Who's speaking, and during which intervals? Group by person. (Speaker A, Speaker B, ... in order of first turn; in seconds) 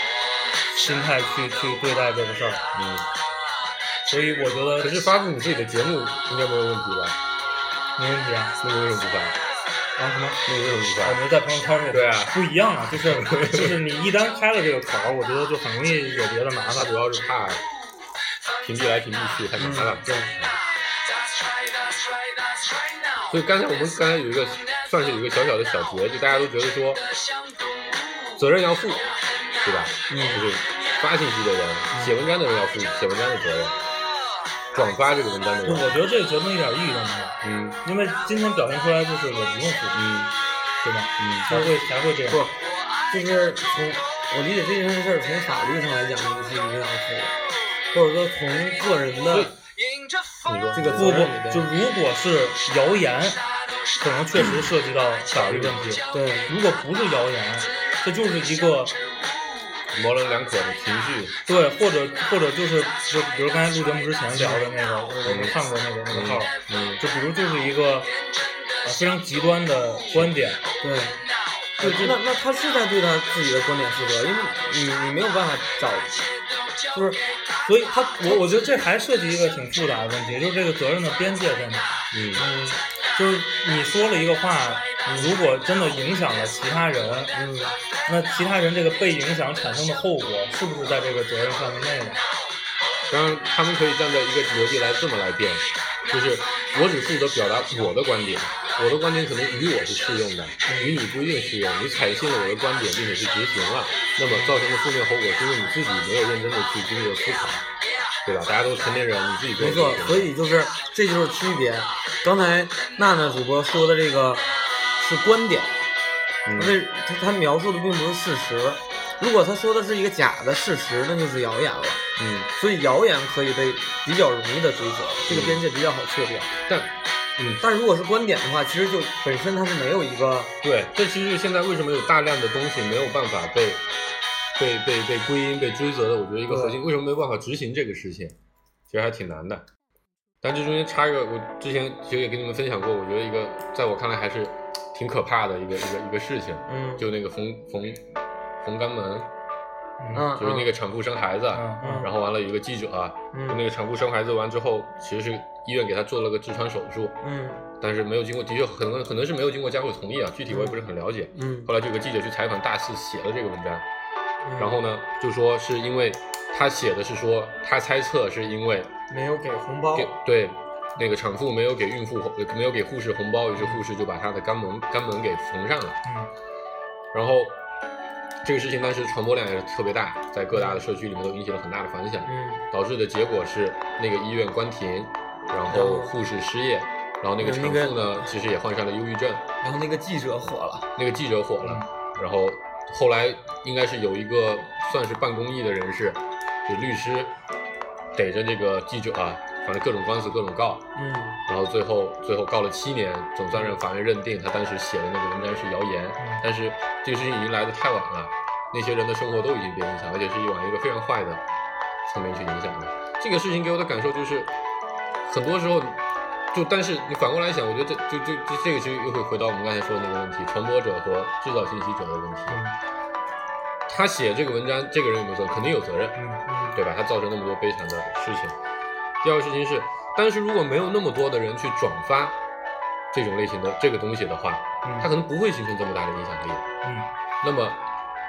Speaker A: 0.7-2.6, 4.1-5.1, 8.0-8.5, 10.0-10.4, 11.0-16.9, 35.6-40.0, 40.8-42.4, 50.9-53.4, 54.0-59.0, 61.5-68.1, 68.8-70.6, 71.8-72.2, 77.6-82.0, 83.1-87.3, 88.0-92.2, 150.0-150.3, 151.5-152.1, 176.0-176.3, 222.5-222.7, 226.2-226.4, 234.8-235.1
Speaker B: 2.7-3.1, 4.8-7.2, 8.6-9.4, 10.4-11.2, 11.9-12.4, 12.9-13.8, 16.7-17.6, 18.6-20.6, 23.3-27.0, 28.3-33.8, 34.7-36.0, 37.4-37.8, 39.9-40.3, 41.2-41.6, 49.3-49.5, 50.4-51.3, 55.3-55.9, 59.9-61.4, 65.2-67.0, 70.1-70.3, 82.1-82.5, 93.1-107.7, 108.2-110.3, 116.5-116.8, 122.2-122.5, 125.3-125.6, 126.6-127.6, 130.6-133.8, 134.6-138.3, 138.9-139.7, 140.4-148.0, 148.6-149.3, 150.3-157.2, 157.8-163.8, 164.6-168.9, 169.9-176.0, 177.1-177.6, 178.4-189.4, 190.9-197.3, 198.1-200.9, 201.4-211.4, 212.0-214.5, 215.2-216.0, 216.5-222.6, 223.9-226.2, 226.7-228.6, 229.2-232.4, 233.1-236.6, 237.4-237.8
Speaker C: 19.6-20.3, 30.1-30.4, 41.5-41.8, 42.3-42.6, 43.1-47.3, 47.9-49.5, 50.7-51.7, 56.1-56.5, 70.8-71.2, 71.8-76.2, 76.9-77.2, 82.3-82.8, 85.1-85.3, 87.3-87.8, 100.7-101.0, 104.3-104.6, 109.6-114.5, 115.0-115.7, 116.5-126.5, 127.6-130.5, 136.5-136.8, 146.7-147.1, 150.1-150.7, 151.8-152.1, 153.3-153.6, 157.2-157.6, 160.5-161.7, 164.4-164.8, 169.1-170.1, 180.5-180.8, 182.2-182.6, 185.7-186.1, 187.4-188.2, 189.6-190.9, 200.9-201.4, 226.4-226.8